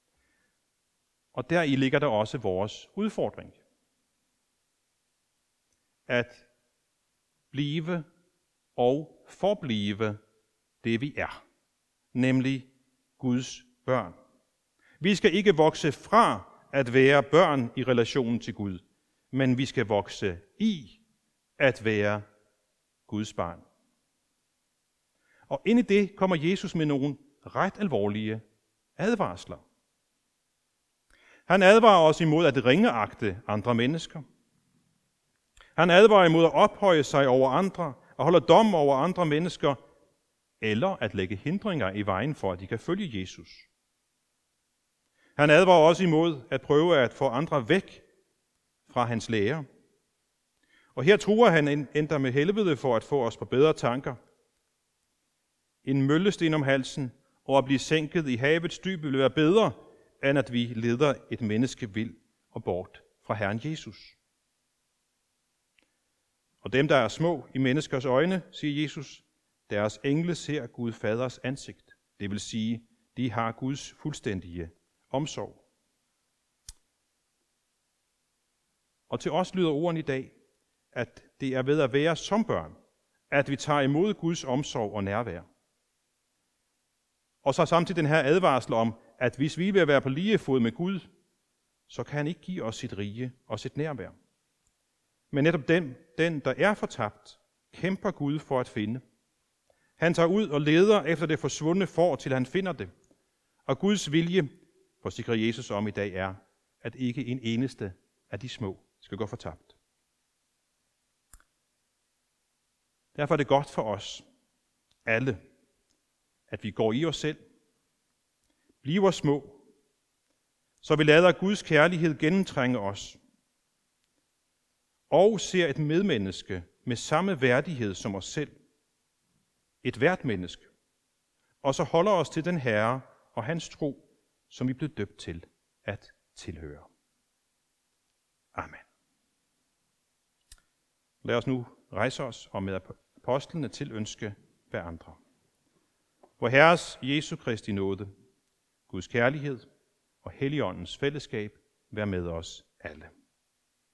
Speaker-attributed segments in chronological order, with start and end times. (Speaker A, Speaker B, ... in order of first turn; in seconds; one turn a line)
Speaker A: 1.3-3.6
Speaker A: 6.1-6.5
Speaker A: 7.5-8.0
Speaker A: 8.8-10.2
Speaker A: 10.8-11.4
Speaker A: 12.1-14.1
Speaker A: 15.0-21.0
Speaker A: 21.6-22.2
Speaker A: 23.1-23.6
Speaker A: 25.5-28.4
Speaker A: 29.0-29.6
Speaker A: 31.5-34.2
Speaker A: 35.8-39.8
Speaker A: 40.6-43.7
Speaker A: 45.4-48.0
Speaker A: 48.9-49.6
Speaker A: 50.9-54.2
Speaker A: 55.8-64.2
Speaker A: 66.6-75.6
Speaker A: 79.1-80.3
Speaker A: 80.9-82.7
Speaker A: 83.3-85.4
Speaker A: 87.4-91.1
Speaker A: 91.9-94.1
Speaker A: 95.3-99.0
Speaker A: 100.0-102.9
Speaker A: 103.7-104.5
Speaker A: 105.0-109.7
Speaker A: 113.1-114.2
Speaker A: 115.0-115.4
Speaker A: 116.5-117.4
Speaker A: 118.8-119.6
Speaker A: 120.8-123.2
Speaker A: 125.1-128.5
Speaker A: 129.8-130.7
Speaker A: 131.6-136.9
Speaker A: 138.5-138.8
Speaker A: 141.2-145.2
Speaker A: 146.4-148.1
Speaker A: 148.9-149.7
Speaker A: 150.2-153.1